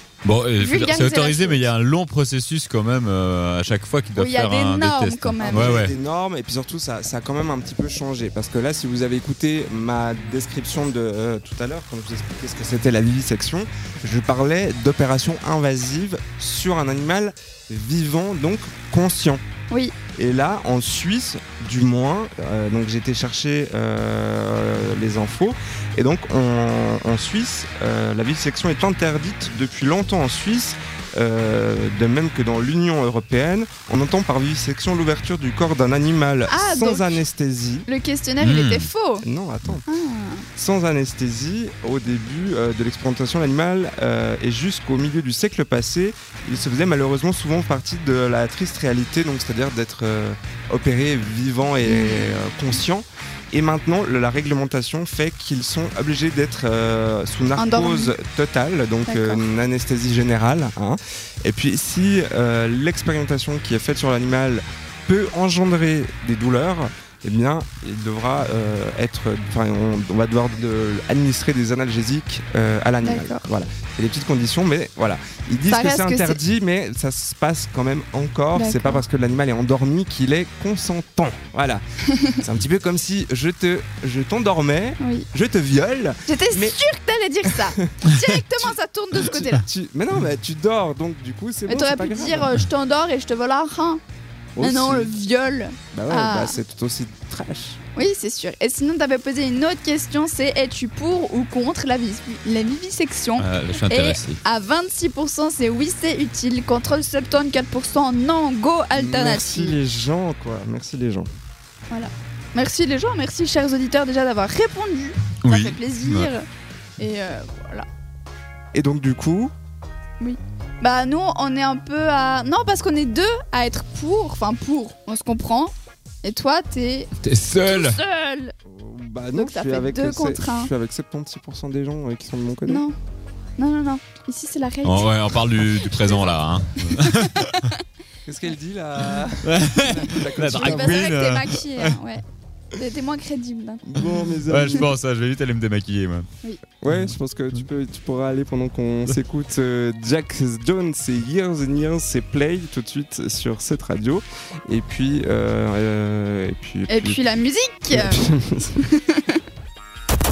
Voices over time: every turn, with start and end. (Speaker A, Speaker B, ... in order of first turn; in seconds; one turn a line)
Speaker A: 0.2-6.0
Speaker B: 0.6-1.7
Speaker B: 4.2-5.9
Speaker C: 5.4-19.4
Speaker B: 19.7-19.9
Speaker C: 20.1-37.9
Speaker B: 36.5-37.2
Speaker B: 37.9-39.2
Speaker A: 38.4-38.9
Speaker C: 39.2-39.8
Speaker B: 39.9-40.5
Speaker C: 40.5-86.8
Speaker B: 51.9-52.5
Speaker B: 57.6-58.1
Speaker B: 59.0-59.4
Speaker B: 73.0-73.4
Speaker B: 75.7-76.4
Speaker B: 78.5-79.0
Speaker B: 82.1-82.4
Speaker B: 85.0-85.2
Speaker B: 86.3-89.7
Speaker C: 87.4-92.6
Speaker B: 91.7-94.0
Speaker C: 94.5-95.1
Speaker B: 94.6-96.6
Speaker C: 95.9-97.8
Speaker B: 98.0-109.8
Speaker A: 103.4-104.4
Speaker C: 108.9-111.3
Speaker B: 111.9-116.5
Speaker A: 115.4-116.3
Speaker B: 117.0-117.8
Speaker C: 118.7-119.5
Speaker B: 120.2-127.1
Speaker A: 127.2-128.0
Speaker B: 127.6-128.5
Speaker C: 128.7-132.8
Speaker B: 129.3-130.7
Speaker B: 132.7-132.9
Speaker B: 133.6-136.4
Speaker A: 134.8-137.7
Speaker B: 136.9-137.8
Speaker C: 138.2-141.1
Speaker A: 139.4-141.9
Speaker B: 140.5-142.2
Speaker B: 142.7-143.9
Speaker C: 143.8-144.9
Speaker A: 144.5-146.3
Speaker C: 146.8-157.2
Speaker A: 146.9-147.6
Speaker B: 156.9-158.2
Speaker C: 157.9-158.8
Speaker B: 158.8-159.4